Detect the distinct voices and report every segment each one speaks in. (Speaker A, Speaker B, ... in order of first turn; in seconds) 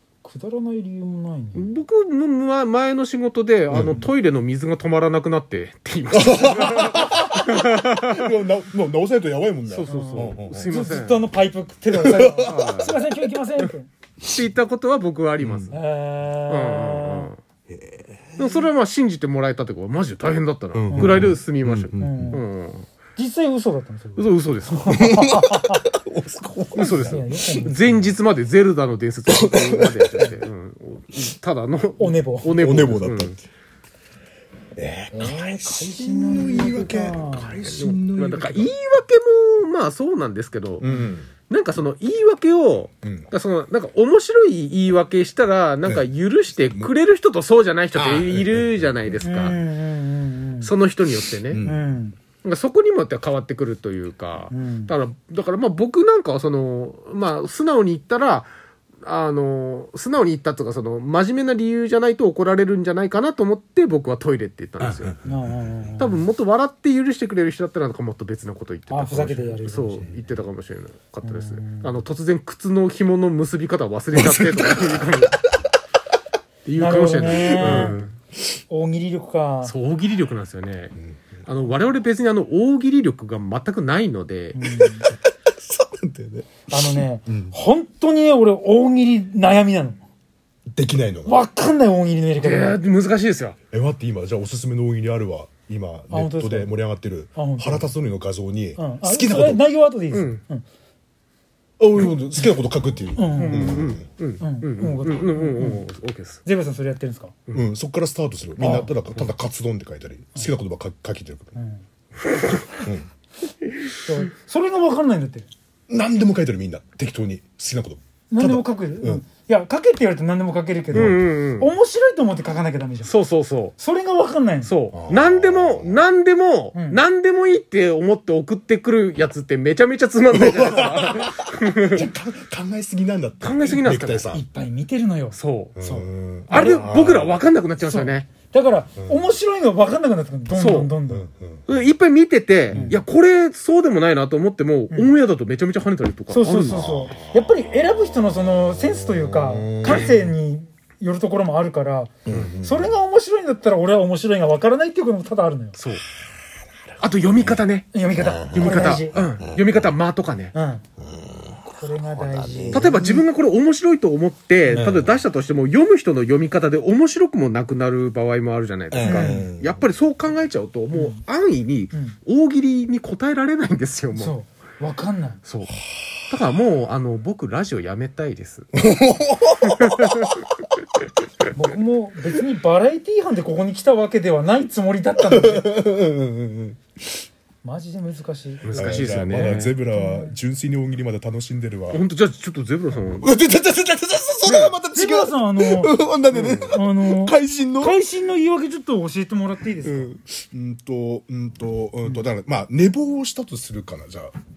Speaker A: 0.2-1.7, 9.9-13.9, 15.7-17.3, 20.9-21.4, 22.0-22.4, 23.2-25.8, 26.8-28.1, 32.0-32.6, 35.1-37.6, 49.2-50.7, 51.6-52.2, 54.5-54.9, 65.2-66.2, 68.9-70.1, 71.2-72.0, 76.8-78.0, 78.7-79.7, 84.5-85.1, 86.7-90.0, 91.3-92.8, 96.1-96.7, 97.3-97.9, 98.8-100.7, 103.2-105.9, 106.5-107.3, 108.6-109.0, 111.6-111.8, 114.0-115.5, 118.3-123.1, 123.8-124.7, 126.7-127.0, 134.3-136.9, 137.8-141.3, 142.7-143.0, 146.3-155.8, 157.9-159.1, 160.5-160.8, 161.7-163.2, 169.0-169.5, 170.9-171.2, 174.1-175.4, 181.5-185.9, 187.6-190.4, 194.9-195.9, 196.7-200.2
Speaker B: 1.6-8.3, 9.7-11.3, 12.4-13.0, 14.3-15.8, 16.5-17.4, 18.4-22.9, 24.2-25.1, 26.8-33.4, 37.6-40.9, 41.5-49.6, 50.6-51.6, 52.4-58.5, 59.0-65.2, 66.0-75.4, 76.7-78.1, 79.6-81.0, 81.5-84.6, 92.4-93.6, 100.1-100.4, 103.3-106.4, 120.9-121.7, 123.0-123.8, 124.6-132.1, 133.4-134.4, 135.3-135.8, 136.5-138.3, 140.5-140.9, 141.7-147.0, 155.8-156.0, 157.0-160.6, 162.7-174.4, 175.4-178.7, 179.7-180.3, 188.6-189.8, 191.9-193.3, 194.4-194.8, 196.3-196.8
Speaker C: 3.7-4.0, 6.1-11.0, 11.9-12.7, 15.4-15.7, 17.7-18.5, 20.8-22.4, 24.9-27.3, 29.3-30.3, 32.6-33.4, 34.8-38.7, 40.8-41.3, 43.0-43.3, 46.6-46.9, 48.0-49.2, 51.5-51.9, 64.8-65.2, 74.1-75.6, 77.6-78.0, 81.1-81.4, 84.8-87.6, 90.7-91.4, 93.7-99.7, 101.8-104.0, 107.5-111.5, 112.8-113.1, 115.9-119.2, 120.9-121.2, 124.9-126.0, 130.3-134.4, 135.8-137.4, 141.1-141.6, 142.7-143.0, 146.7-148.3, 148.9-150.3, 152.3-152.9, 158.2-159.9, 161.1-163.0, 164.7-165.1, 168.9-169.8, 178.8-180.3, 185.2-186.8, 188.8-192.0, 193.2-198.0, 199.8-204.3